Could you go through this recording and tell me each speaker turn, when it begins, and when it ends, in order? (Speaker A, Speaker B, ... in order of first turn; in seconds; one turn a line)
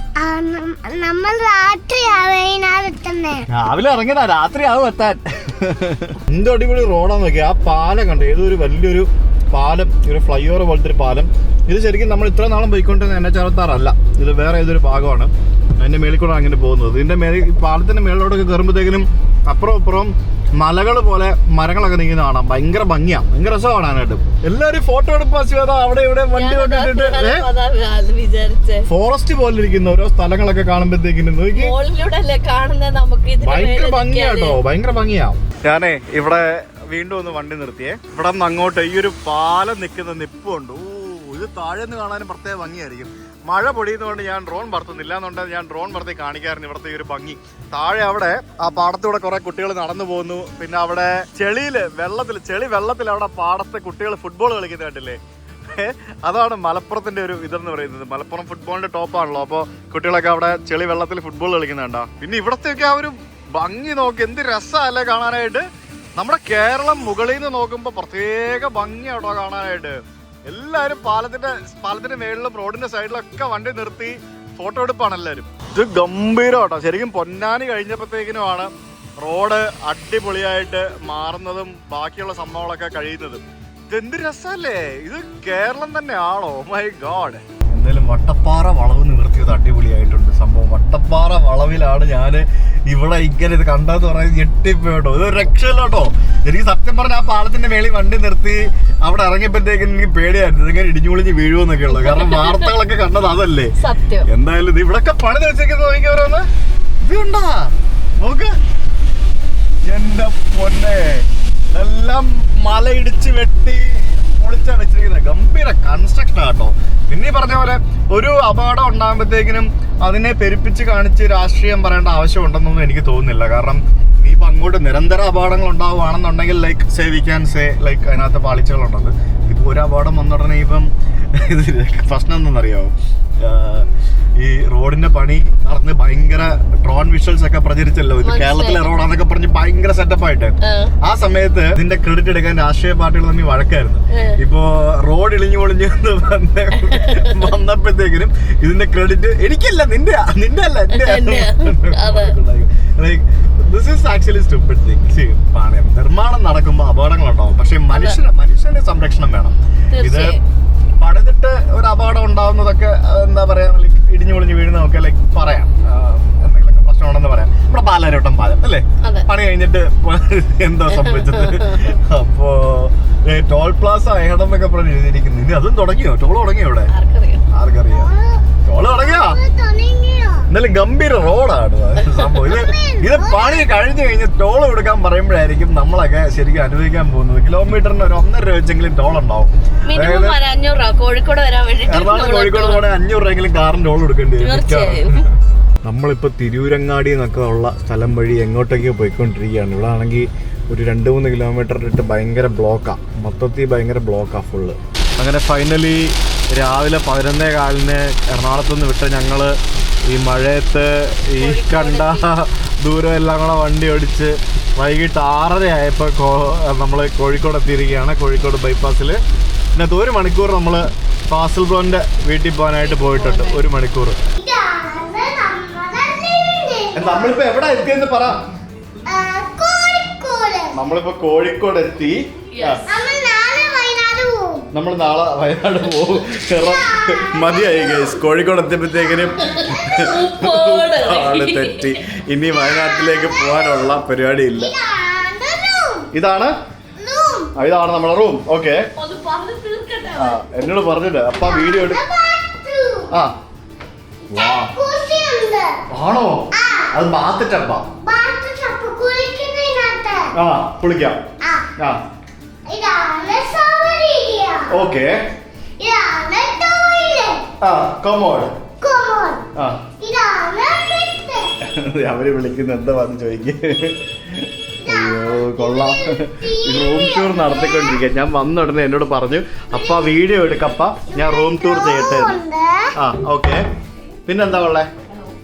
Speaker A: 0.2-3.4
Speaker B: 3.5-27.4
Speaker C: 26.4-28.9
Speaker B: 28.9-31.7
Speaker C: 31.5-34.6
Speaker B: 33.4-65.6
Speaker B: 66.2-106.5
Speaker C: 101.9-102.7
Speaker C: 103.8-104.3
Speaker B: 107.0-108.5
Speaker B: 109.8-160.4
Speaker C: 138.2-138.9
Speaker C: 140.6-140.9
Speaker C: 144.1-144.4
Speaker C: 146.8-147.5
Speaker C: 150.9-152.3
Speaker C: 157.9-158.2
Speaker C: 159.9-160.4
Speaker B: 161.0-176.9
Speaker C: 170.9-171.9
Speaker C: 176.9-177.4
Speaker B: 177.5-178.1
Speaker A: 177.9-180.5
Speaker B: 178.6-179.4
Speaker B: 180.5-190.4
Speaker A: 182.4-183.7
Speaker C: 189.9-192.8
Speaker B: 191.9-195.3
Speaker C: 194.4-195.2
Speaker B: 195.8-209.6
Speaker B: 210.1-219.2
Speaker C: 211.4-212.3
Speaker B: 219.7-224.2
Speaker C: 222.8-223.6
Speaker A: 224.4-227.4
Speaker B: 226.9-228.4
Speaker A: 229.1-230.7
Speaker B: 230.7-232.8
Speaker C: 232.5-232.8
Speaker A: 232.9-234.7
Speaker B: 234.7-244.7
Speaker A: 236.3-238.2
Speaker C: 239.8-242.0
Speaker A: 242.5-243.8
Speaker A: 244.5-246.1
Speaker B: 246.1-246.5
Speaker A: 247.0-247.5
Speaker B: 247.6-248.9
Speaker C: 248.9-250.4
Speaker B: 250.2-252.0
Speaker A: 251.4-253.1
Speaker B: 254.3-254.7
Speaker A: 254.7-255.8
Speaker B: 255.9-257.9
Speaker A: 256.5-257.0
Speaker A: 258.0-260.3
Speaker B: 260.3-261.2
Speaker A: 261.4-261.7
Speaker A: 262.7-264.8
Speaker B: 264.7-265.2
Speaker A: 265.8-267.5
Speaker B: 267.6-268.6
Speaker A: 268.8-269.5
Speaker B: 269.5-269.8
Speaker A: 270.0-271.5
Speaker B: 271.6-282.4
Speaker A: 274.9-278.0
Speaker A: 279.7-280.1
Speaker A: 281.1-282.9
Speaker B: 282.9-283.6
Speaker B: 284.2-284.9